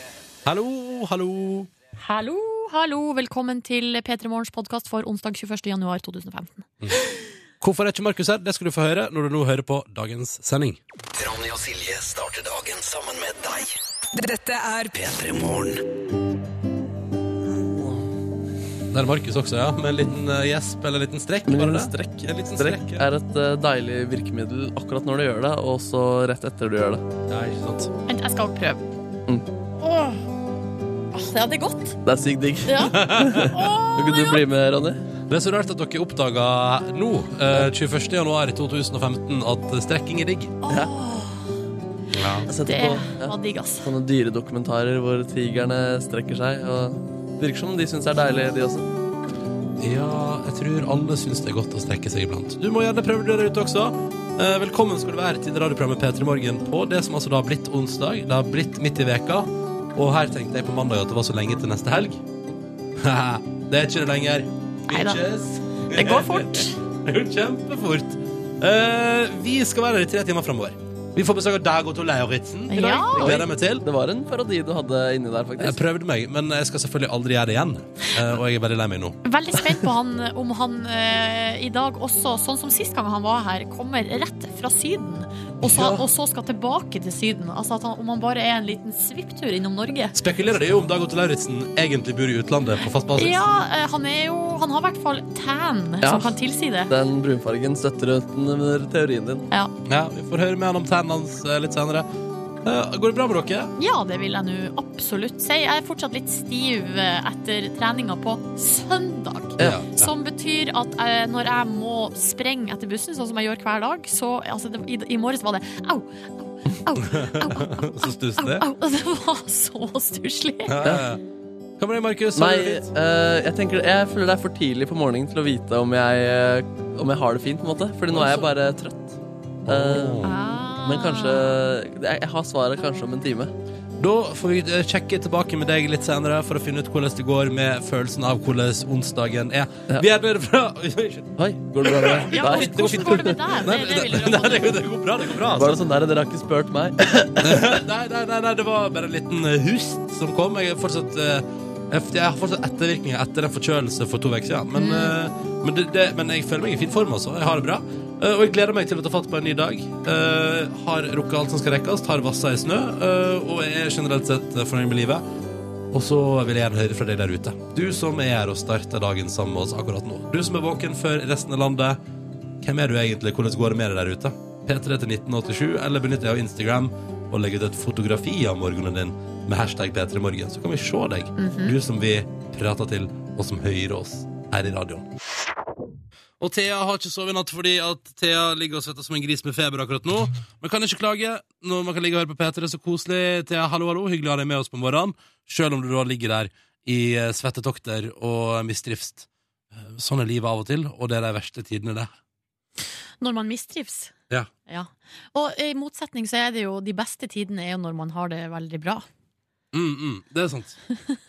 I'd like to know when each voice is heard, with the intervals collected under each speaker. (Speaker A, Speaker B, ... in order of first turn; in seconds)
Speaker A: 0.4-1.7, 7.6-10.8, 18.9-23.0, 27.3-27.9, 33.0-33.5, 35.3-40.5, 42.1-42.5, 49.8-62.2, 63.0-73.8, 75.6-79.2, 85.6-86.0, 90.1-93.4, 99.8-102.1, 102.6-103.7, 109.6-110.1, 117.0-118.7, 120.7-121.2, 121.8-122.9, 128.1-128.5, 129.7-130.3, 134.0-145.8, 147.4-165.2, 165.9-172.0, 172.6-185.1, 186.4-202.1, 209.7-210.8
Speaker B: 2.0-7.1, 28.1-28.8, 29.8-30.2, 31.1-32.0, 32.6-34.4, 40.6-41.5, 42.6-43.9, 64.9-65.2, 65.9-66.8, 72.7-73.3, 79.2-90.2, 93.2-96.9, 103.8-120.8, 130.2-131.5, 142.3-144.8, 154.7-155.1, 181.4-181.8, 203.2-204.1, 204.7-209.1
Speaker C: 11.1-15.8
Speaker D: 21.5-27.1, 32.0-35.0, 42.5-48.9, 73.1-75.8, 96.0-96.4, 96.9-99.5, 122.3-130.3, 130.8-133.5, 141.4-143.4, 145.5-147.7